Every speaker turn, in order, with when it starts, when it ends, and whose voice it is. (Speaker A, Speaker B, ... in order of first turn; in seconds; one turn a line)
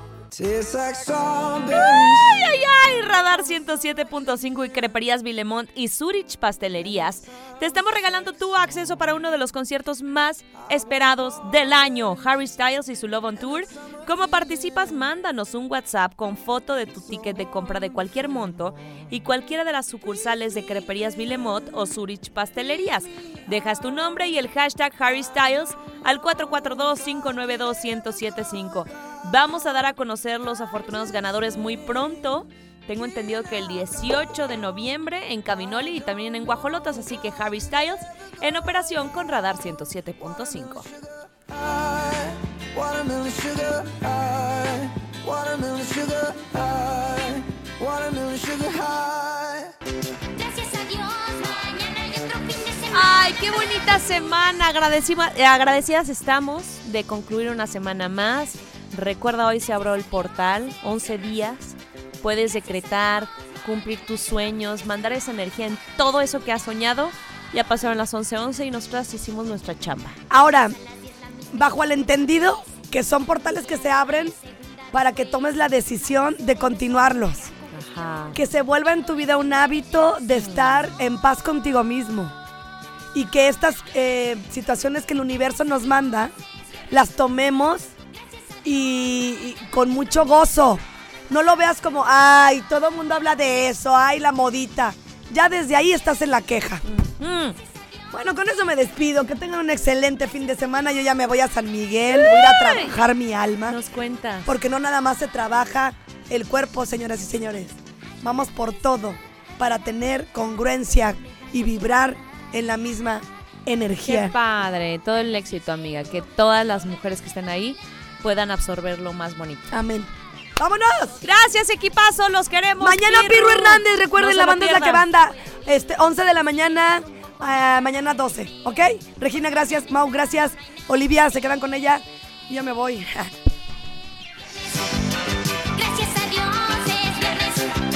Speaker A: 0.3-2.4
Speaker B: 1.7-40.9
Speaker A: 40.9-49.7
Speaker C: 50.4-53.6
Speaker B: 52.9-70.2
Speaker D: 70.3-70.8
Speaker D: 71.5-74.4
Speaker D: 74.9-77.5
Speaker B: 77.7-78.4
Speaker D: 78.3-82.3
Speaker B: 80.4-81.0
Speaker D: 83.1-86.3
Speaker D: 86.9-87.9
Speaker D: 88.6-96.8
Speaker B: 96.9-97.6
Speaker D: 98.1-103.8
Speaker B: 102.1-103.0
Speaker B: 103.7-104.5
Speaker D: 104.4-114.3
Speaker B: 114.0-119.7
Speaker D: 119.7-121.2
Speaker B: 121.2-125.0
Speaker D: 122.8-133.3
Speaker C: 135.7-137.7